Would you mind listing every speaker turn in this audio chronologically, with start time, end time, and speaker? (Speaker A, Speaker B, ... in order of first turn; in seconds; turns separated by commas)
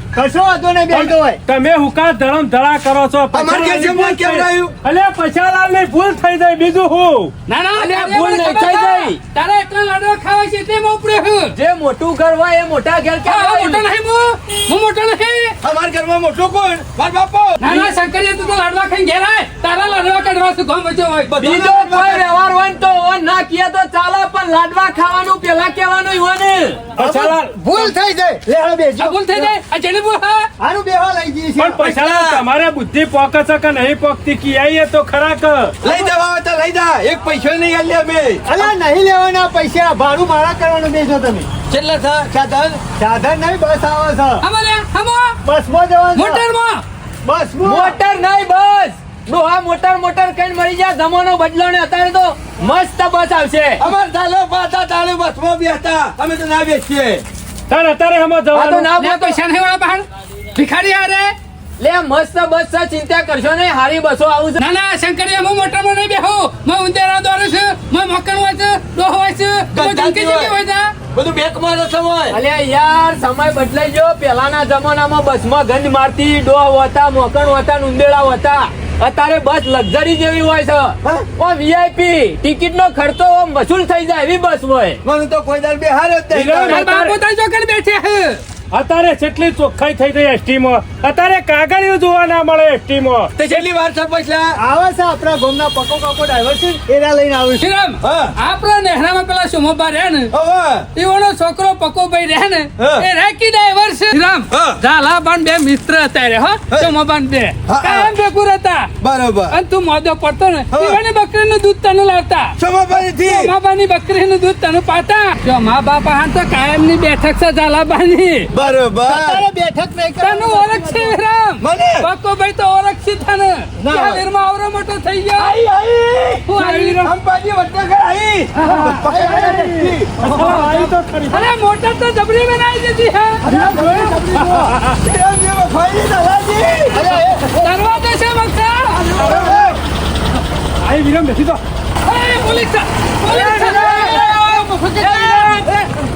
Speaker A: 0.1-1.4, Speaker B: 0.9-7.3, Speaker C: 3.3-4.7, Speaker D: 7.5-11.5, Speaker E: 7.8-9.2, Speaker E: 11.5-13.8, Speaker D: 13.2-15.5, Speaker C: 15.6-17.6, Speaker D: 17.6-21.4, Speaker C: 21.3-22.2, Speaker E: 21.4-26.9, Speaker B: 26.9-27.6, Speaker A: 27.0-29.5, Speaker D: 29.0-30.5, Speaker A: 30.6-32.0, Speaker B: 31.6-35.8, Speaker C: 31.8-32.4, Speaker A: 35.8-36.1, Speaker C: 35.8-38.4, Speaker A: 38.5-41.5, Speaker C: 41.7-42.8, Speaker A: 43.0-44.4, Speaker D: 44.4-45.3, Speaker A: 45.4-46.4, Speaker D: 46.1-46.8, Speaker A: 47.2-48.0, Speaker E: 47.6-53.8, Speaker C: 53.8-57.2, Speaker B: 57.7-58.9, Speaker E: 58.5-59.4, Speaker D: 58.9-61.4, Speaker E: 61.8-64.6, Speaker D: 64.6-70.9, Speaker C: 69.7-70.5, Speaker C: 71.1-72.4, Speaker E: 72.3-85.0, Speaker C: 85.0-86.8, Speaker B: 86.3-87.1, Speaker D: 86.6-88.4, Speaker B: 88.7-93.6, Speaker C: 93.4-94.5, Speaker A: 94.6-97.7, Speaker D: 97.6-100.3, Speaker C: 98.0-98.3, Speaker C: 100.3-100.9, Speaker D: 100.9-108.9, Speaker C: 102.8-103.0, Speaker C: 104.5-104.8, Speaker C: 107.7-108.1, Speaker C: 109.0-109.6, Speaker D: 109.5-112.5, Speaker C: 110.7-111.0, Speaker C: 112.6-113.5, Speaker D: 113.2-118.5, Speaker C: 118.5-119.4, Speaker A: 119.0-121.2, Speaker D: 120.2-125.6, Speaker C: 121.6-122.1, Speaker C: 123.8-124.2, Speaker C: 125.3-130.7, Speaker D: 126.5-127.1, Speaker D: 128.6-129.0, Speaker B: 128.7-131.5, Speaker A: 129.1-129.7, Speaker A: 130.2-130.9, Speaker D: 131.3-133.4, Speaker A: 133.4-134.7, Speaker C: 133.4-137.0, Speaker B: 133.5-135.0, Speaker A: 136.9-137.7, Speaker D: 137.5-139.0, Speaker A: 139.1-139.8, Speaker C: 139.1-139.8, Speaker B: 140.8-141.6, Speaker D: 142.0-145.9, Speaker A: 143.3-145.7, Speaker B: 143.3-144.0